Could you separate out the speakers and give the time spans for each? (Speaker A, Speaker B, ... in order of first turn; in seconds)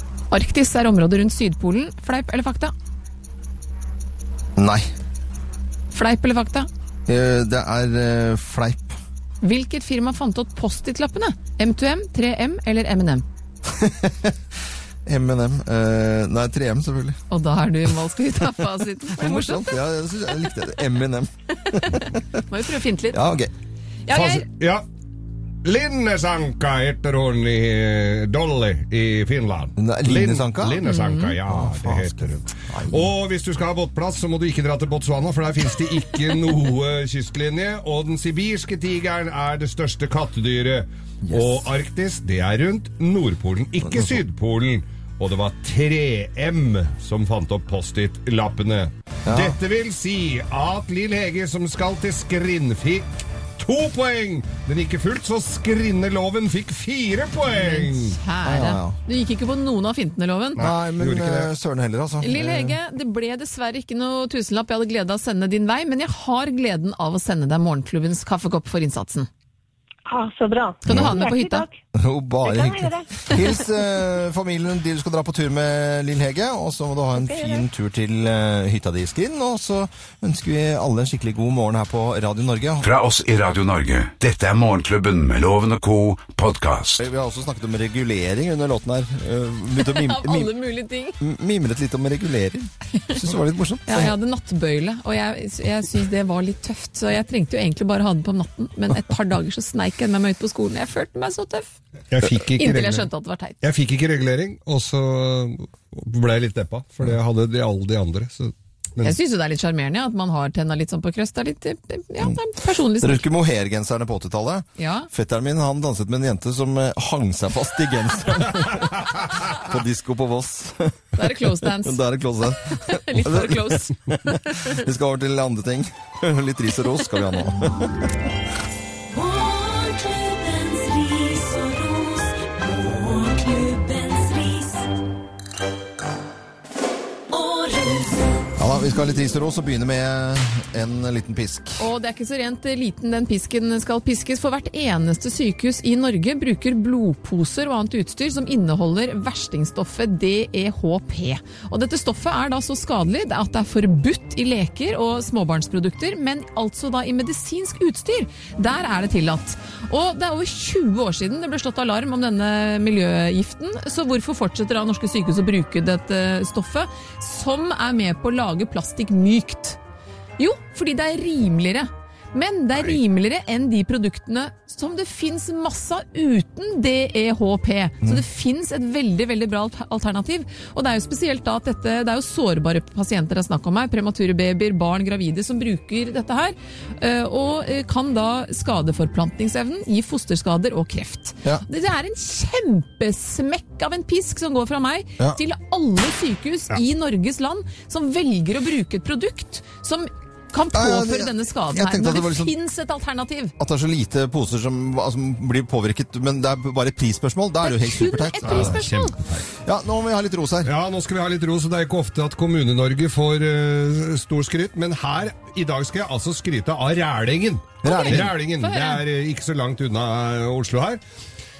Speaker A: 0.3-2.7, 5.9-6.7, 9.4-13.2, 17.3-19.7, 21.7-23.2, 24.1-24.4, 30.8-31.4, 57.5-60.6, 62.2-69.3, 70.8-71.7, 89.8-91.2, 93.9-101.7, 102.6-103.6, 109.0-113.2, 114.8-115.1, 121.2-122.0, 122.7-124.7, 141.8-169.8, 170.4-203.5, 207.6-209.1, 217.8-219.0
Speaker B: 4.5-4.8, 7.1-9.0, 13.7-14.3, 15.1-17.2, 19.1-22.4, 23.1-23.5, 29.8-30.8, 31.4-33.1, 41.2-41.7, 43.8-44.2, 49.2-49.6, 58.4-59.0, 60.6-62.8, 70.9-71.2, 71.9-82.9, 87.0-90.5, 91.2-94.2, 113.0-128.3, 138.6-141.8, 200.7-202.5, 203.6-208.8, 209.6-210.7, 217.8-218.3
Speaker C: 24.1-24.8, 25.6-58.2, 60.6-61.5, 102.1-103.1, 103.6-109.2, 208.4-209.4, 210.6-221.0
Speaker D: 70.0-71.8, 72.4-73.3, 77.1-77.6
Speaker E: 82.8-87.0
Speaker F: 129.1-134.9, 137.3-138.3